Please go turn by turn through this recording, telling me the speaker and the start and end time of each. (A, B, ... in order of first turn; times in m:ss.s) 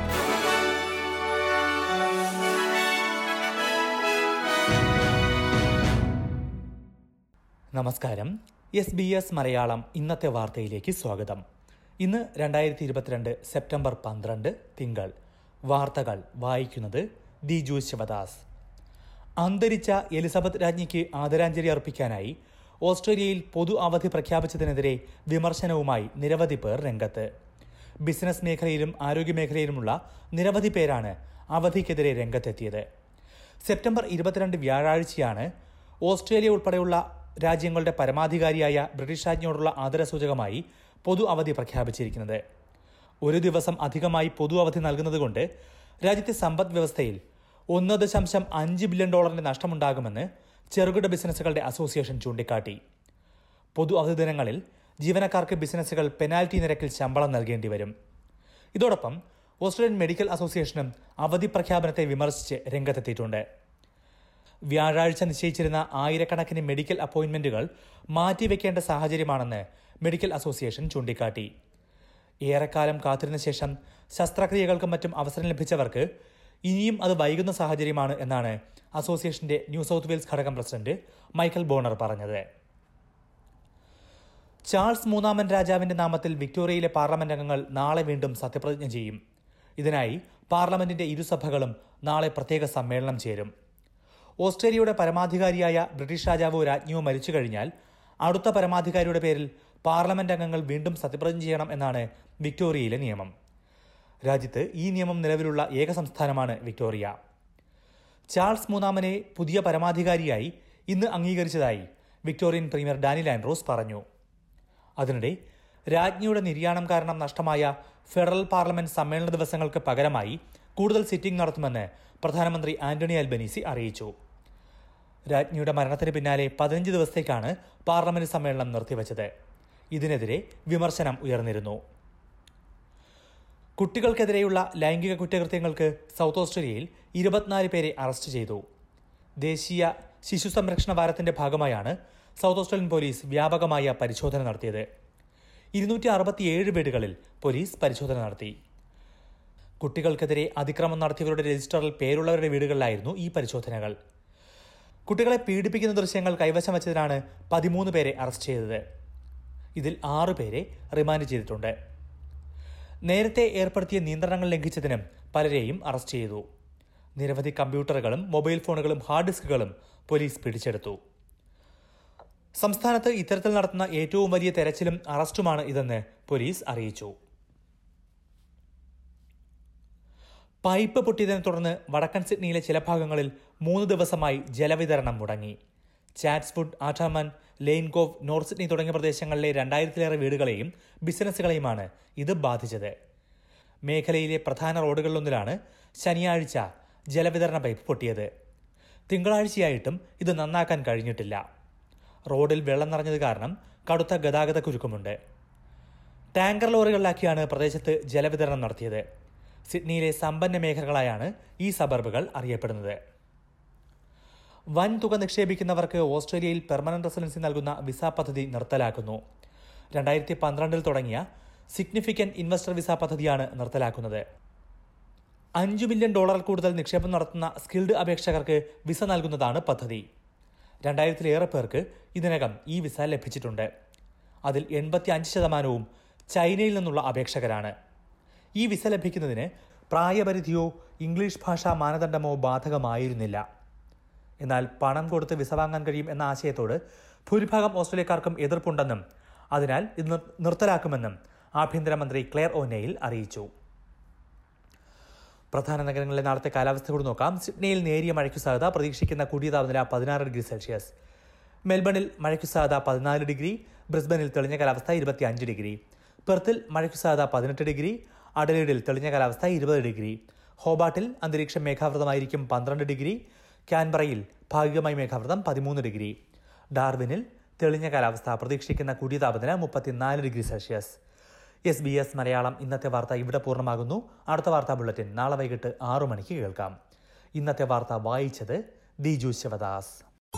0:07.8-0:11.4 A
0:12.0-0:15.1 A
0:15.7-0:18.4 A
0:19.4-0:27.3 A
0:28.0-0:32.8 A
0:33.6-0:35.5 A
0:36.0-0:42.4 A
0:43.2-0:45.4 A
0:46.0-0:47.2 A
0:47.7-0:52.8 A
0:53.8-0:57.9 A
0:58.8-1:03.4 A
1:04.7-1:11.5 A
1:12.5-1:16.0 A
1:16.7-1:22.4 A
1:24.7-1:29.2 A
1:29.8-1:33.5 A
1:34.4-1:37.7 A
1:38.2-1:43.3 A
1:44.2-1:47.1 A
1:48.3-1:54.0 A
1:55.0-1:55.4 A
1:55.9-2:04.1 A
2:05.3-2:09.3 A
2:09.9-2:11.8 A
2:13.8-2:18.6 A
2:19.4-2:24.8 A
2:25.8-2:28.5 A
2:29.8-2:33.9 A
2:35.1-2:38.8 A
2:39.8-2:41.7 A
2:43.1-2:46.4 A
2:47.2-2:51.0 A
2:52.6-2:57.1 A
3:00.6-3:05.6 A
3:06.2-3:12.9 A
3:13.9-3:18.3 A
3:19.1-3:21.4 A
3:22.3-3:25.1 A
3:26.4-3:29.0 A
3:29.7-3:33.0 A
3:34.8-3:39.2 A
3:39.9-3:44.2 A
3:45.6-3:50.0 A
3:50.8-3:53.7 A
3:54.4-3:57.7 A
3:58.6-4:03.4 A
4:04.4-4:09.0 A
4:09.5-4:13.5 A
4:15.5-4:20.9 A
4:21.7-4:36.2 A
4:36.7-4:41.0 A
4:41.7-4:46.7 A
4:47.4-4:50.0 A